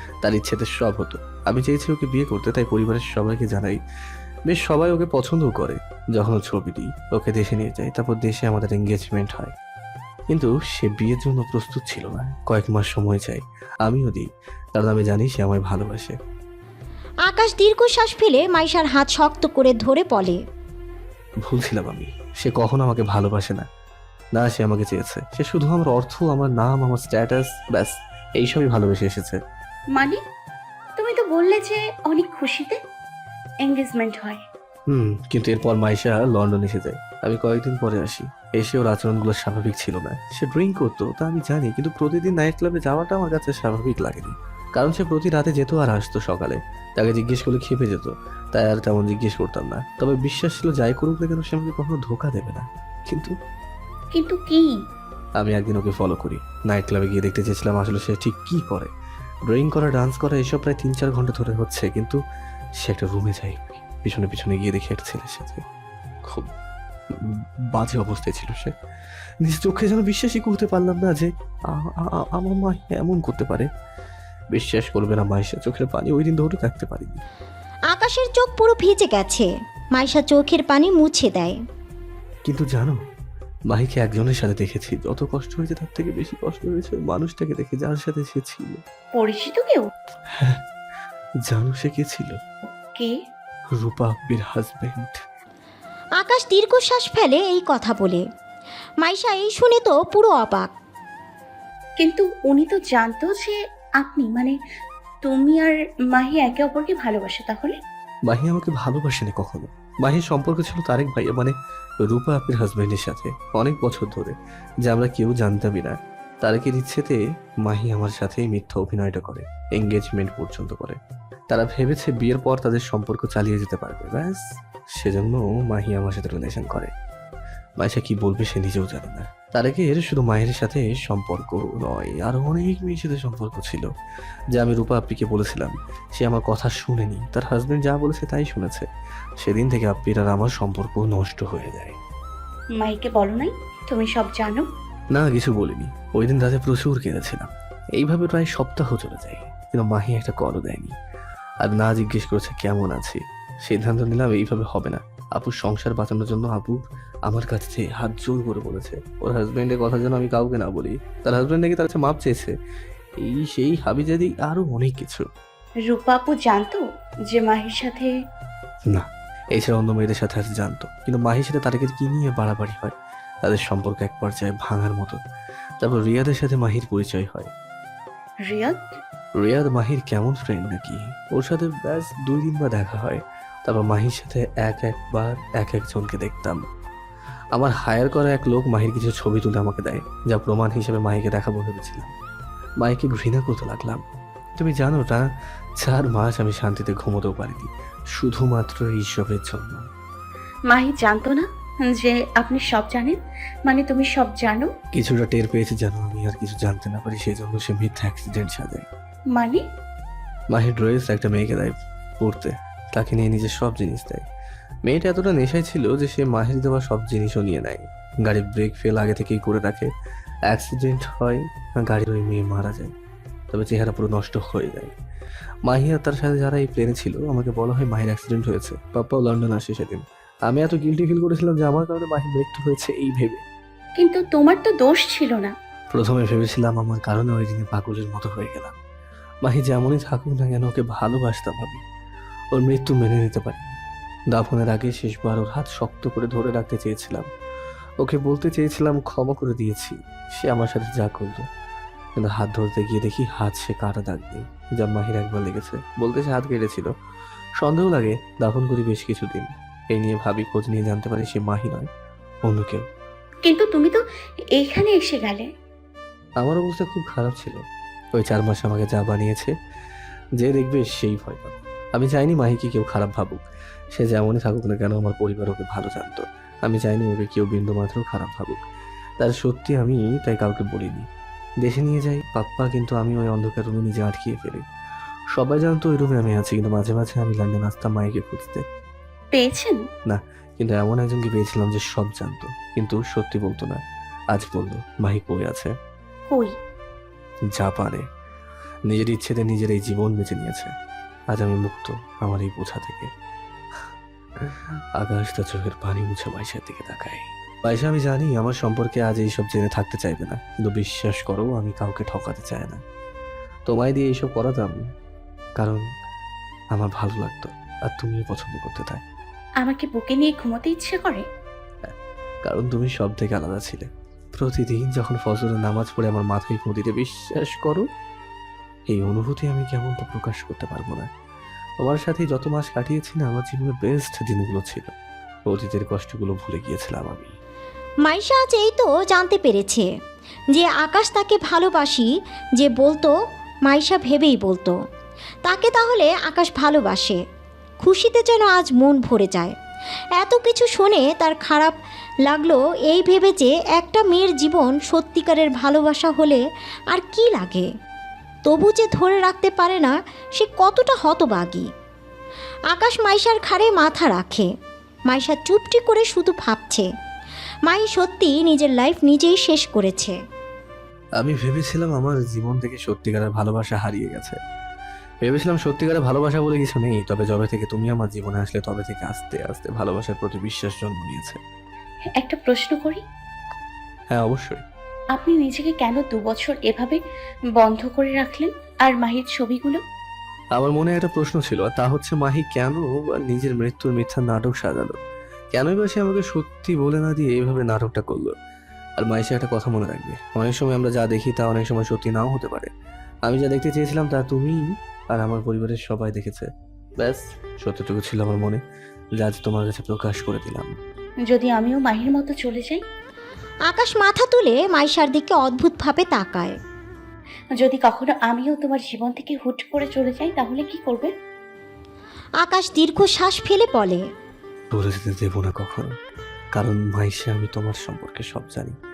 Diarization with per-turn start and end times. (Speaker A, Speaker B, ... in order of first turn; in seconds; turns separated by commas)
Speaker A: 0.2-3.8, Speaker A: 4.5-9.5, Speaker A: 10.3-16.1, Speaker B: 17.3-20.4, Speaker A: 21.4-23.6, Speaker A: 24.4-29.4, Speaker C: 29.9-30.2, Speaker C: 31.0-32.8, Speaker C: 33.6-34.4, Speaker A: 34.9-53.3, Speaker C: 54.1-54.7, Speaker A: 55.4-58.9, Speaker A: 59.5-62.2, Speaker A: 62.8-65.6, Speaker A: 67.7-68.8, Speaker A: 69.4-73.7, Speaker A: 74.5-77.2, Speaker B: 77.9-81.6, Speaker A: 82.5-83.0, Speaker A: 83.7-88.8, Speaker C: 89.1-89.9, Speaker A: 90.3-90.6, Speaker A: 91.5-92.4, Speaker A: 93.8-95.2, Speaker B: 96.2-98.2, Speaker B: 99.0-100.7, Speaker C: 102.0-104.5, Speaker C: 105.2-107.8, Speaker A: 108.3-121.0, Speaker A: 121.5-124.4, Speaker A: 125.0-126.9, Speaker A: 127.8-133.9, Speaker A: 134.5-138.9, Speaker A: 139.4-142.0, Speaker C: 142.8-144.7, Speaker A: 145.1-151.0, Speaker A: 151.6-162.5, Speaker A: 163.2-165.3, Speaker C: 165.9-168.1, Speaker A: 168.9-175.2, Speaker A: 175.8-177.5, Speaker C: 178.4-178.8, Speaker A: 179.4-186.6, Speaker A: 187.5-192.1, Speaker A: 192.8-194.0, Speaker A: 194.6-195.3, Speaker A: 195.8-199.8, Speaker C: 200.7-204.7, Speaker A: 204.9-208.9, Speaker C: 209.3-209.6, Speaker A: 210.5-214.2, Speaker A: 214.9-219.9, Speaker A: 220.5-222.9, Speaker A: 223.5-225.0, Speaker A: 225.7-233.4, Speaker C: 234.0-235.5, Speaker A: 235.9-238.8, Speaker A: 239.4-241.8, Speaker A: 242.5-243.7, Speaker A: 244.3-247.3, Speaker A: 248.0-251.4, Speaker A: 252.2-256.9, Speaker A: 257.6-261.9, Speaker A: 262.4-262.8, Speaker C: 263.4-264.0, Speaker C: 264.5-265.5, Speaker A: 266.4-267.6, Speaker A: 268.1-269.5, Speaker A: 270.4-278.6, Speaker A: 279.2-281.1, Speaker A: 281.6-284.6, Speaker A: 285.3-288.6, Speaker C: 289.3-289.8, Speaker A: 290.1-295.7, Speaker A: 297.5-298.0, Speaker A: 298.9-300.7, Speaker A: 301.3-303.1, Speaker A: 304.5-312.8, Speaker A: 313.7-314.8, Speaker A: 315.6-315.8, Speaker A: 316.7-319.0, Speaker C: 319.6-321.2, Speaker A: 322.4-327.8, Speaker A: 328.9-331.1, Speaker A: 331.8-334.9, Speaker A: 335.5-337.3, Speaker B: 338.0-339.9, Speaker B: 340.5-343.1, Speaker B: 343.6-344.8, Speaker B: 345.4-347.2, Speaker B: 347.8-349.5, Speaker B: 350.2-357.7, Speaker B: 358.4-361.7, Speaker B: 362.7-364.5, Speaker B: 365.1-366.9, Speaker B: 367.6-370.2, Speaker A: 371.2-374.4, Speaker A: 375.2-381.4, Speaker C: 382.2-383.0, Speaker A: 384.1-384.6, Speaker C: 385.2-387.0, Speaker C: 387.6-389.8, Speaker A: 390.5-395.0, Speaker A: 395.5-398.3, Speaker A: 399.0-402.7, Speaker A: 403.2-408.6, Speaker A: 409.2-410.8, Speaker C: 411.3-412.8, Speaker B: 413.7-416.6, Speaker C: 417.5-421.1, Speaker B: 422.4-424.0, Speaker A: 424.7-425.9, Speaker A: 426.5-428.7